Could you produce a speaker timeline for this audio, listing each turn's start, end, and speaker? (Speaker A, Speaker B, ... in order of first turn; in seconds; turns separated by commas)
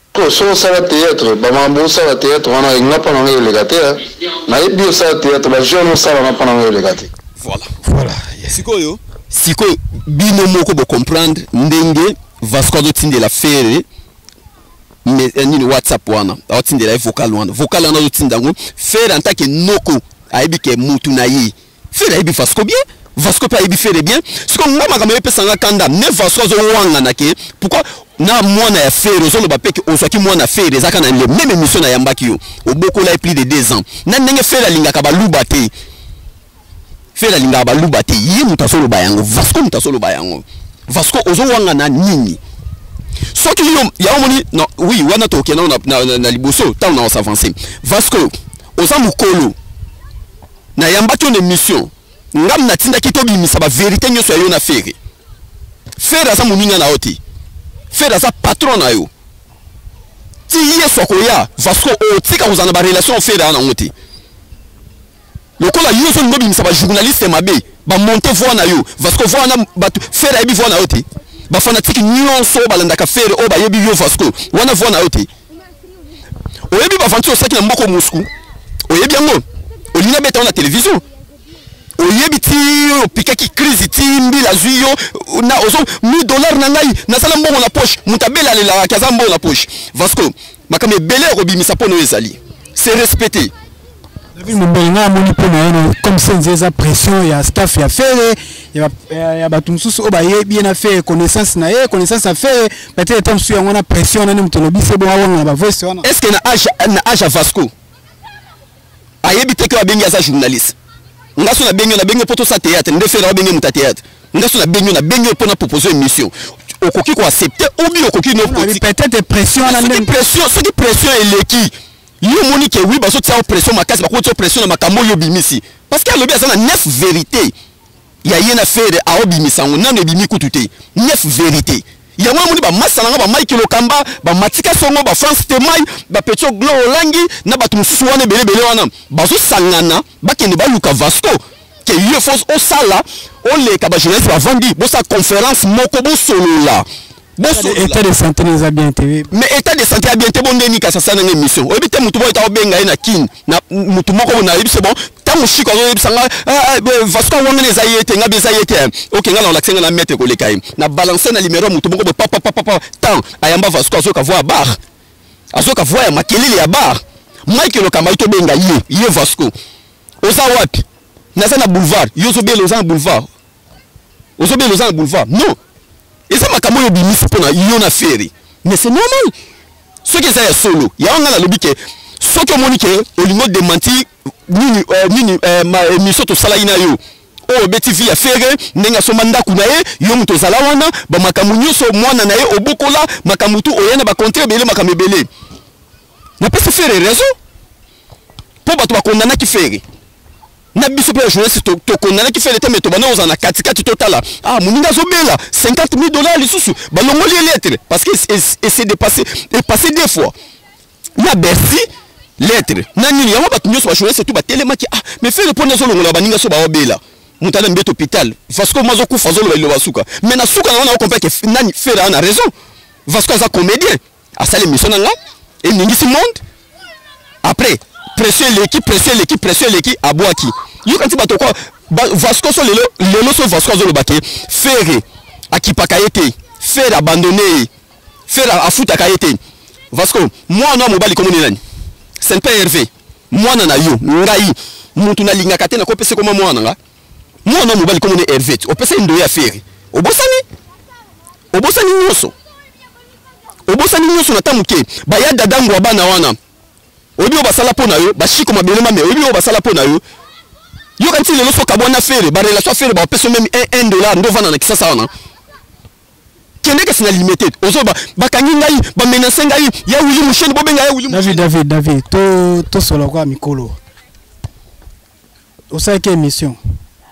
Speaker A: 0.1-7.1, Speaker B: 7.4-7.7, Speaker C: 7.8-8.6, Speaker B: 8.5-13.9, Speaker B: 15.1-35.7, Speaker B: 37.2-42.4, Speaker B: 43.3-49.6, Speaker B: 50.8-55.0, Speaker B: 56.0-57.2, Speaker B: 57.9-59.1, Speaker B: 60.5-63.9, Speaker B: 65.6-75.3, Speaker B: 76.7-78.3, Speaker B: 78.9-81.0, Speaker B: 82.0-93.5, Speaker C: 94.4-106.1, Speaker B: 106.0-107.7, Speaker B: 109.2-110.8, Speaker B: 111.4-118.8, Speaker C: 118.4-120.2, Speaker B: 119.6-127.5, Speaker B: 128.2-148.0, Speaker C: 147.5-149.3, Speaker B: 149.3-164.8, Speaker B: 165.5-169.5, Speaker B: 170.2-173.3, Speaker B: 174.4-175.6, Speaker B: 176.3-179.3, Speaker B: 180.0-195.3, Speaker B: 196.4-197.4, Speaker B: 198.7-199.8, Speaker B: 200.8-210.3, Speaker B: 211.2-211.9, Speaker B: 212.4-222.5, Speaker B: 223.1-226.4, Speaker B: 227.4-237.7, Speaker B: 238.3-239.4, Speaker B: 239.9-241.6, Speaker B: 242.2-246.8, Speaker B: 247.4-250.4, Speaker B: 251.5-252.3, Speaker B: 253.7-256.4, Speaker B: 257.2-260.0, Speaker B: 261.0-265.1, Speaker B: 266.6-271.4, Speaker C: 271.1-273.8, Speaker C: 275.7-276.6